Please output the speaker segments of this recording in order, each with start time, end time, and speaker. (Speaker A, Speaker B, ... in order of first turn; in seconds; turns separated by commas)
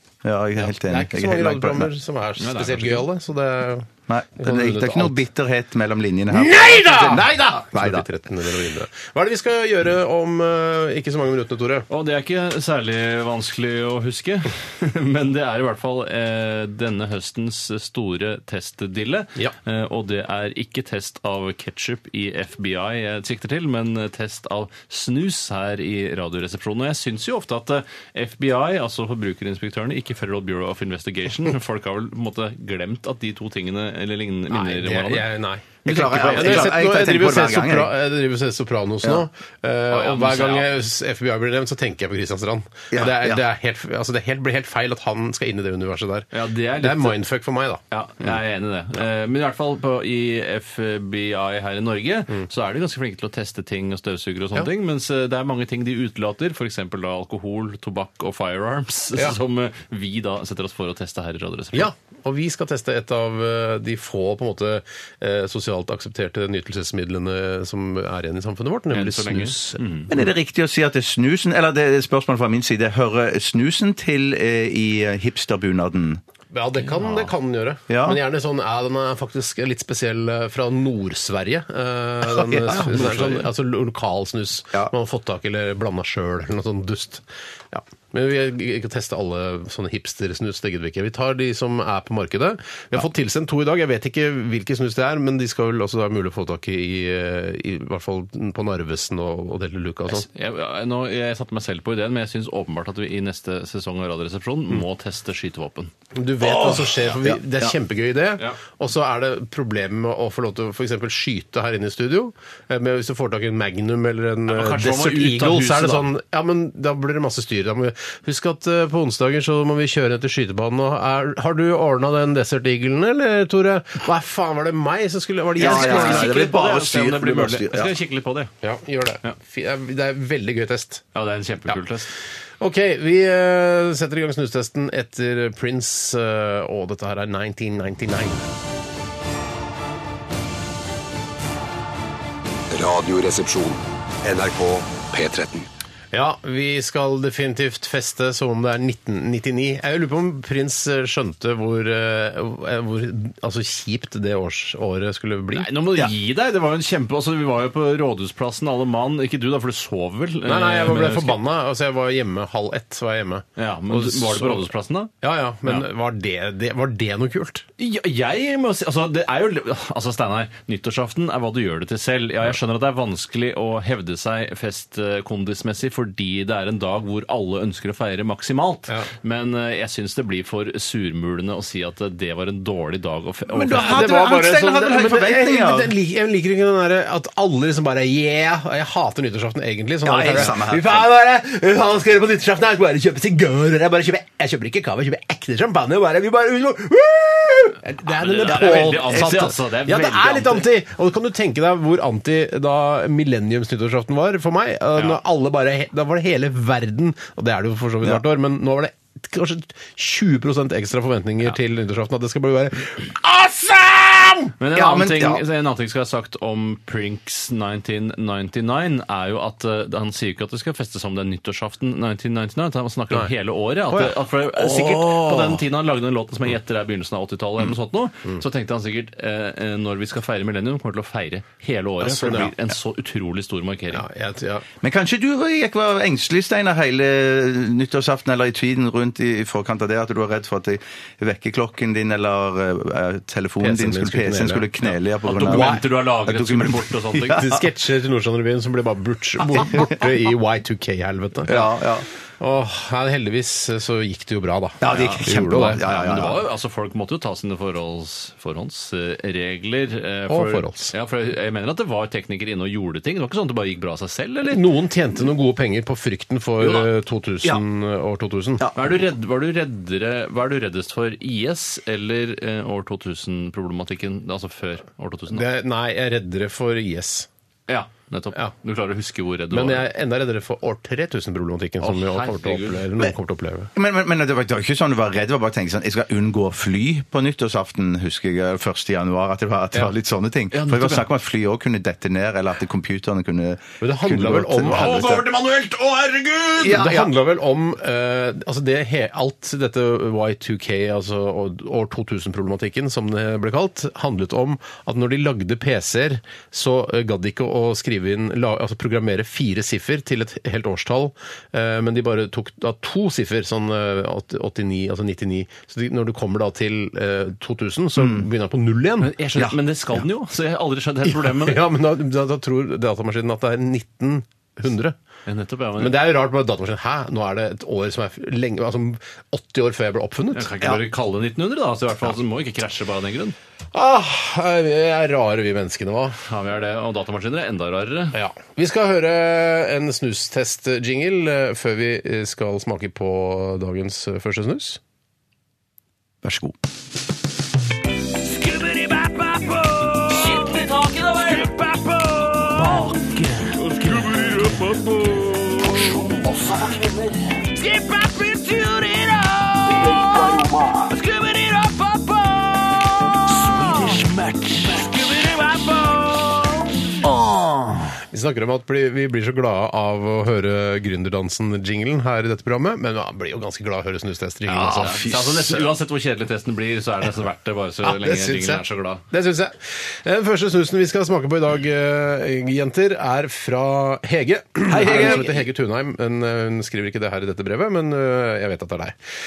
Speaker A: 0.2-1.9, Speaker B: 0.6-5.2, Speaker C: 2.4-3.1, Speaker A: 4.1-8.1, Speaker B: 6.3-11.9, Speaker C: 11.9-35.3, Speaker B: 34.5-47.8, Speaker C: 35.8-36.8, Speaker A: 35.9-38.0, Speaker C: 39.9-40.7, Speaker A: 42.9-43.4, Speaker C: 46.3-47.2, Speaker C: 47.9-61.9, Speaker B: 61.7-69.8, Speaker C: 68.9-70.2, Speaker A: 70.1-76.2, Speaker B: 76.5-100.3, Speaker C: 76.8-77.3, Speaker A: 77.9-78.2, Speaker A: 82.2-83.5, Speaker C: 100.1-105.9, Speaker B: 106.1-126.5, Speaker A: 106.4-107.7, Speaker C: 114.5-116.1, Speaker A: 125.6-127.9, Speaker C: 125.6-128.5, Speaker B: 128.6-131.0, Speaker C: 131.2-132.1, Speaker B: 132.6-138.5, Speaker D: 142.7-145.7, Speaker B: 146.1-155.7, Speaker C: 155.5-161.4, Speaker B: 160.4-164.7, Speaker C: 163.6-165.1, Speaker B: 165.2-167.7, Speaker C: 167.8-184.2, Speaker A: 183.5-185.9, Speaker B: 183.8-214.6, Speaker A: 190.0-191.1, Speaker C: 198.0-200.7, Speaker A: 198.5-199.2, Speaker C: 214.6-234.1, Speaker A: 214.7-215.4, Speaker A: 223.9-225.6, Speaker B: 232.0-232.5, Speaker B: 233.9-234.7, Speaker A: 234.8-247.6, Speaker B: 243.6-244.7, Speaker C: 245.2-247.5, Speaker B: 245.3-245.8, Speaker B: 247.3-251.7, Speaker A: 249.5-250.1, Speaker A: 251.5-252.1, Speaker B: 252.4-255.8, Speaker A: 254.8-256.4, Speaker C: 254.9-264.6, Speaker B: 260.3-260.9, Speaker B: 264.4-268.7, Speaker A: 268.6-268.9, Speaker C: 268.8-275.4, Speaker B: 275.3-277.3, Speaker C: 277.7-279.9, Speaker B: 279.5-283.7, Speaker C: 281.8-282.9, Speaker A: 283.8-295.3, Speaker C: 290.5-291.1, Speaker B: 293.8-295.2, Speaker C: 294.7-296.9, Speaker A: 296.6-297.1, Speaker B: 296.7-319.1, Speaker A: 318.0-318.3, Speaker C: 319.0-321.6, Speaker B: 321.1-325.0, Speaker C: 325.3-326.0, Speaker B: 325.8-330.5, Speaker C: 330.3-333.4, Speaker B: 333.7-336.2, Speaker C: 336.3-338.2, Speaker B: 338.1-344.8, Speaker A: 346.2-346.6, Speaker C: 348.2-367.1, Speaker B: 368.1-375.0, Speaker C: 374.5-379.0, Speaker A: 374.7-375.6, Speaker B: 377.8-388.9, Speaker A: 384.7-385.4, Speaker C: 384.7-385.2